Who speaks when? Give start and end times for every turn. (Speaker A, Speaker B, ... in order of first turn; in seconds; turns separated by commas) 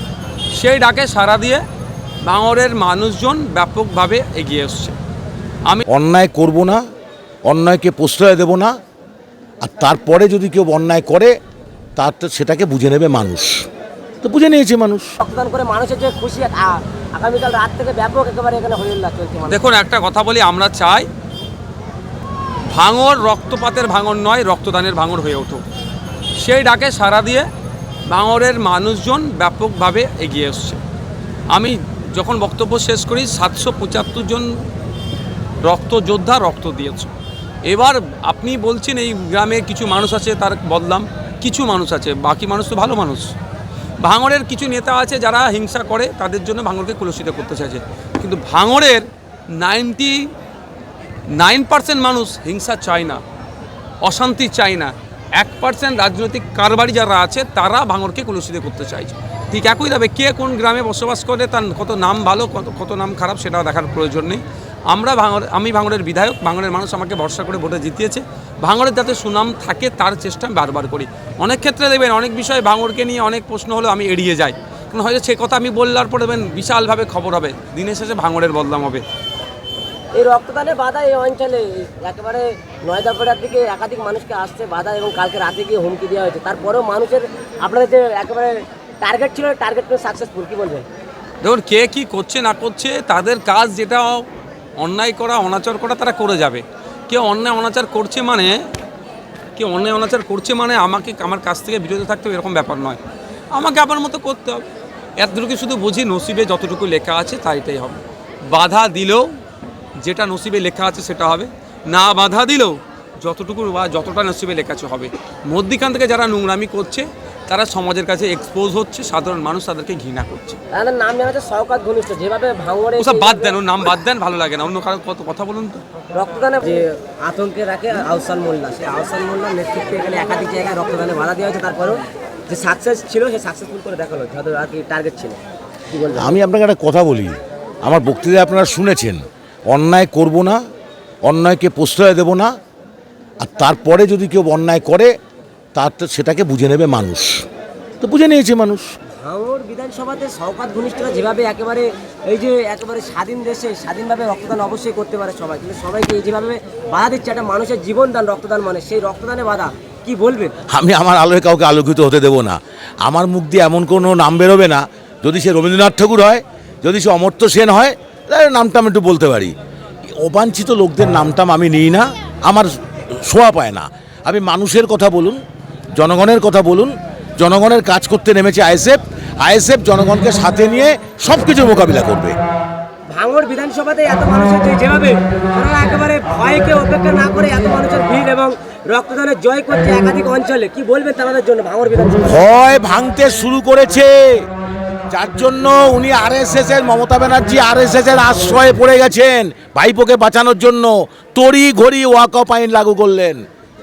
Speaker A: 0.5-1.6, Speaker A: 2.2-5.0, Speaker B: 5.9-6.8, Speaker B: 7.5-8.7, Speaker B: 9.6-11.3, Speaker B: 12.0-13.6, Speaker B: 14.2-15.1, Speaker C: 15.2-19.6, Speaker A: 19.5-21.1, Speaker A: 22.7-25.6, Speaker A: 26.4-27.5, Speaker A: 28.1-30.8, Speaker A: 31.5-34.5, Speaker A: 35.6-37.1, Speaker A: 37.6-43.3, Speaker A: 44.0-50.3, Speaker A: 51.3-53.2, Speaker A: 54.0-79.0, Speaker C: 80.2-90.8, Speaker A: 91.4-98.7, Speaker A: 99.5-103.0, Speaker A: 103.5-104.7, Speaker A: 105.2-109.3, Speaker A: 110.0-120.6, Speaker C: 120.7-123.6, Speaker A: 123.0-125.8, Speaker C: 126.1-135.4, Speaker C: 135.9-136.4, Speaker B: 136.2-140.6, Speaker B: 141.2-142.5, Speaker B: 143.4-145.1, Speaker B: 145.7-147.4, Speaker B: 148.0-148.8, Speaker C: 149.2-160.5, Speaker B: 160.7-169.5, Speaker B: 170.1-175.4, Speaker B: 175.9-182.3, Speaker C: 183.1-192.4, Speaker B: 192.2-194.4, Speaker B: 195.1-203.4